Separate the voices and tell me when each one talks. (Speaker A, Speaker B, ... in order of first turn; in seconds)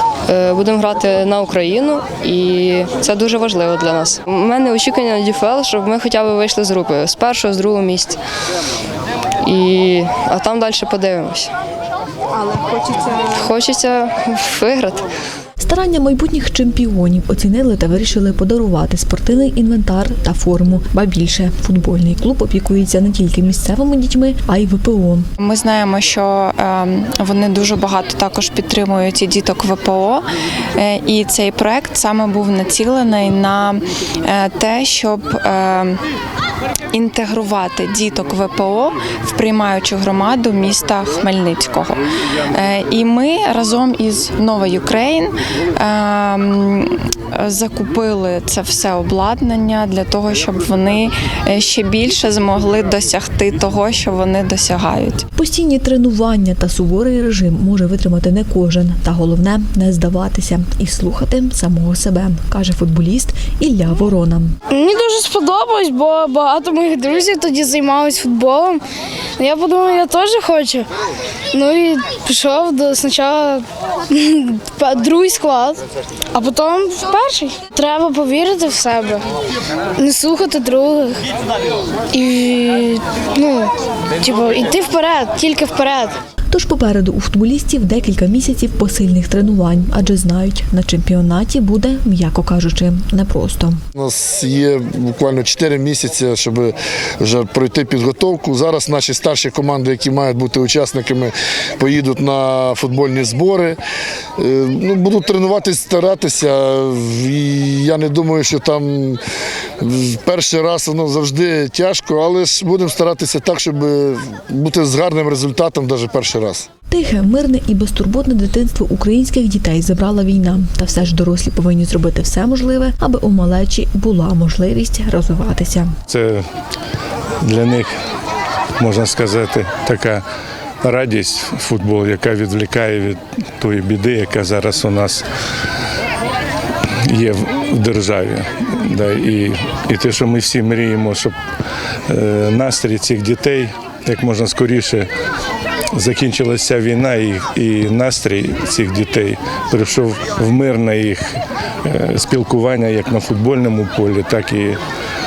Speaker A: 0.3-8.2, 9.4-11.5, 13.1-15.1
Speaker B: 15.6-25.3, 55.4-64.5, 86.5-93.8, 116.9-125.9
Speaker C: 25.4-30.3, 30.8-36.0, 36.9-42.0, 42.5-55.2
Speaker D: 64.7-68.8, 69.4-70.9, 71.5-75.8, 76.3-79.2, 80.0-81.2, 82.1-86.2
Speaker E: 94.0-103.8, 104.4-109.2, 109.8-116.7
Speaker F: 126.1-126.4, 127.4-127.9, 128.8-130.2, 130.8-135.2, 137.1-141.3, 142.1-145.1, 145.9-154.8